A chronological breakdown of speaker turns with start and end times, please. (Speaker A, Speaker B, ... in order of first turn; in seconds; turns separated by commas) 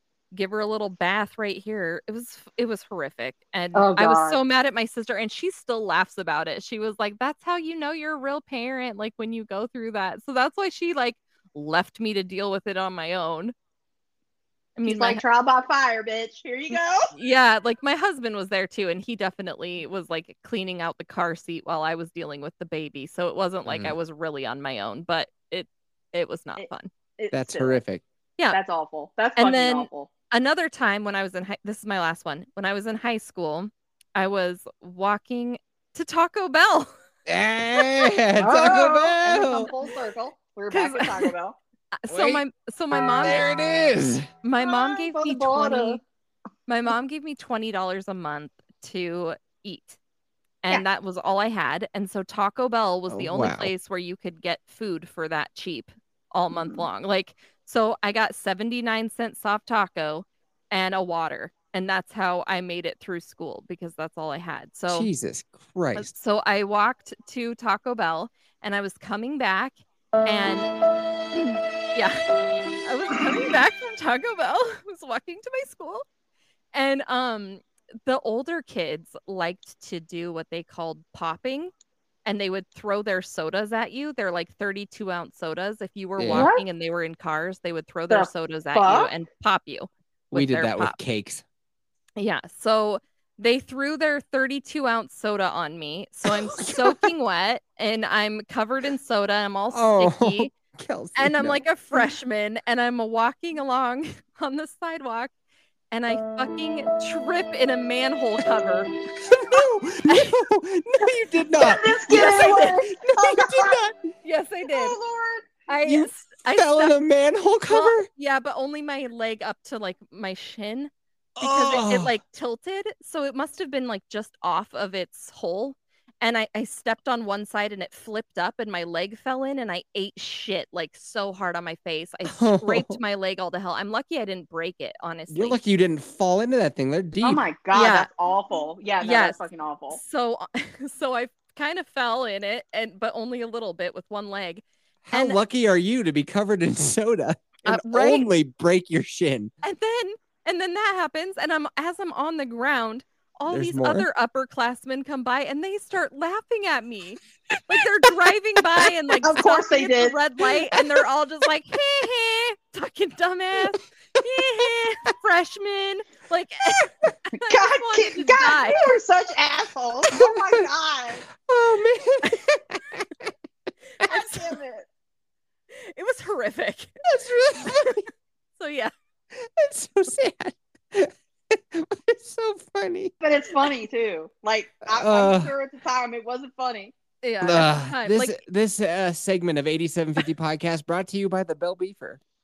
Speaker A: 0.3-13.5, Speaker B: 3.8-4.4, Speaker A: 14.8-15.2, Speaker B: 14.8-17.1, Speaker A: 17.1-26.9, Speaker C: 23.7-23.9, Speaker B: 26.6-27.8, Speaker C: 27.3-28.0, Speaker B: 28.5-30.1, Speaker A: 29.4-36.9, Speaker C: 37.3-39.7, Speaker B: 38.4-41.6, Speaker A: 40.7-41.3, Speaker A: 42.0-43.5, Speaker C: 42.1-42.4, Speaker C: 43.2-44.3, Speaker A: 44.4-46.0, Speaker B: 44.6-46.0, Speaker A: 46.7-50.0, Speaker A: 50.6-65.1, Speaker C: 53.1-53.7, Speaker B: 56.5-56.8, Speaker C: 64.9-66.1, Speaker A: 66.0-70.7, Speaker A: 71.9-72.3, Speaker A: 72.8-76.0, Speaker A: 76.7-81.7, Speaker A: 82.3-91.0, Speaker C: 86.2-86.5, Speaker B: 86.3-86.7, Speaker B: 88.1-89.1, Speaker C: 90.3-91.4, Speaker A: 92.2-100.5, Speaker C: 96.3-97.1, Speaker C: 99.7-101.6, Speaker A: 101.2-105.3, Speaker A: 105.9-108.9, Speaker C: 109.2-114.0, Speaker B: 111.6-113.8, Speaker A: 112.1-112.8, Speaker A: 114.2-115.0, Speaker B: 114.7-115.5, Speaker A: 115.7-117.0, Speaker C: 115.8-118.1, Speaker A: 117.7-135.6, Speaker C: 121.4-122.2, Speaker C: 132.2-133.0, Speaker C: 135.3-137.4, Speaker B: 137.2-140.0, Speaker A: 137.7-138.1, Speaker A: 139.0-145.4, Speaker C: 145.0-149.5, Speaker A: 147.7-148.3, Speaker A: 149.6-169.0, Speaker C: 153.5-154.1, Speaker B: 159.2-160.2, Speaker B: 167.5-171.3, Speaker C: 170.2-170.7, Speaker C: 171.4-173.3, Speaker A: 174.0-174.6, Speaker B: 174.1-174.9, Speaker A: 175.7-177.0, Speaker C: 177.1-178.1, Speaker A: 177.6-178.0, Speaker A: 178.6-178.9, Speaker C: 179.3-183.1, Speaker B: 183.2-186.9, Speaker C: 184.9-185.5, Speaker A: 187.2-188.4, Speaker C: 187.4-192.2